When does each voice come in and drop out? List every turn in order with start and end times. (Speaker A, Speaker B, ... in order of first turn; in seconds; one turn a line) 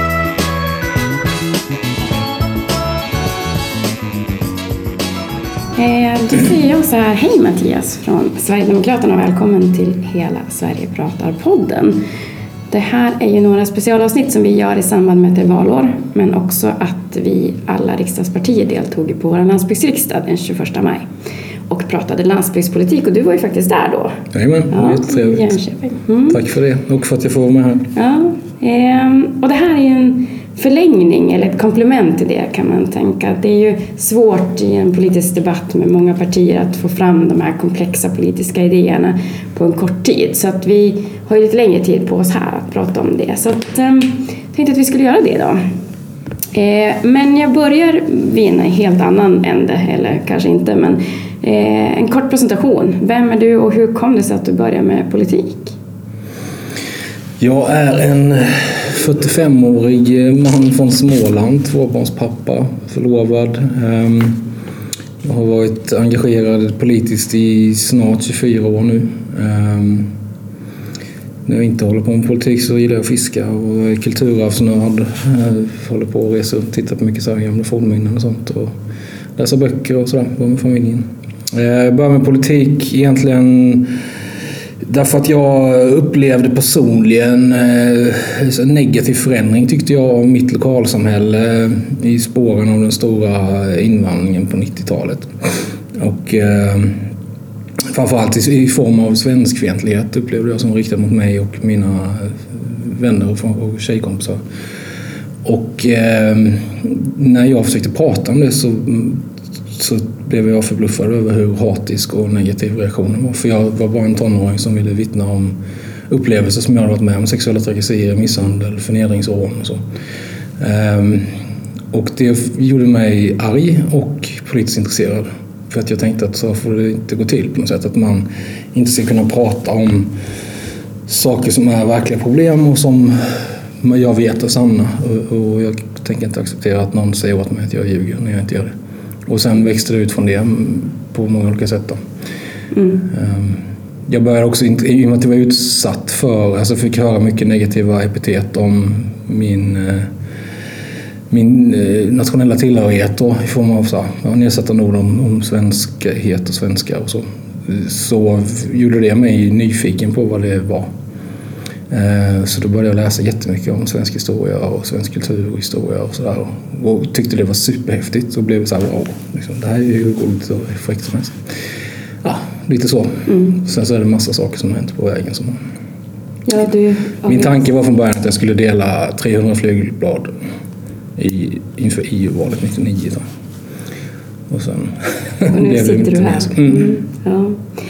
Speaker A: 5.8-12.0
Speaker A: 12.7-21.0
Speaker A: 21.7-24.2
Speaker B: 24.3-25.6
Speaker A: 24.7-26.4
Speaker B: 26.3-27.9
Speaker A: 27.9-45.6
Speaker A: 46.5-55.7
Speaker B: 57.4-64.4
Speaker B: 65.2-70.1
Speaker B: 71.5-78.7
Speaker B: 79.4-83.9
Speaker B: 84.8-95.3
Speaker B: 95.9-97.0
Speaker B: 97.9-104.4
Speaker B: 105.4-109.2
Speaker B: 109.7-115.6
Speaker B: 116.1-119.8
Speaker B: 120.6-121.3
Speaker B: 121.9-130.1
Speaker B: 131.1-133.2
Speaker B: 133.8-138.7
Speaker B: 139.3-142.0
Speaker A: 142.7-143.1
Speaker B: 143.1-150.1
Speaker B: 151.3-160.9
Speaker B: 161.9-171.4
Speaker B: 172.2-175.6
Speaker A: 173.3-173.6
Speaker A: 176.5-177.6
Speaker B: 177.2-180.3
Speaker B: 181.2-183.2
Speaker B: 184.5-186.9
Speaker A: 185.5-187.6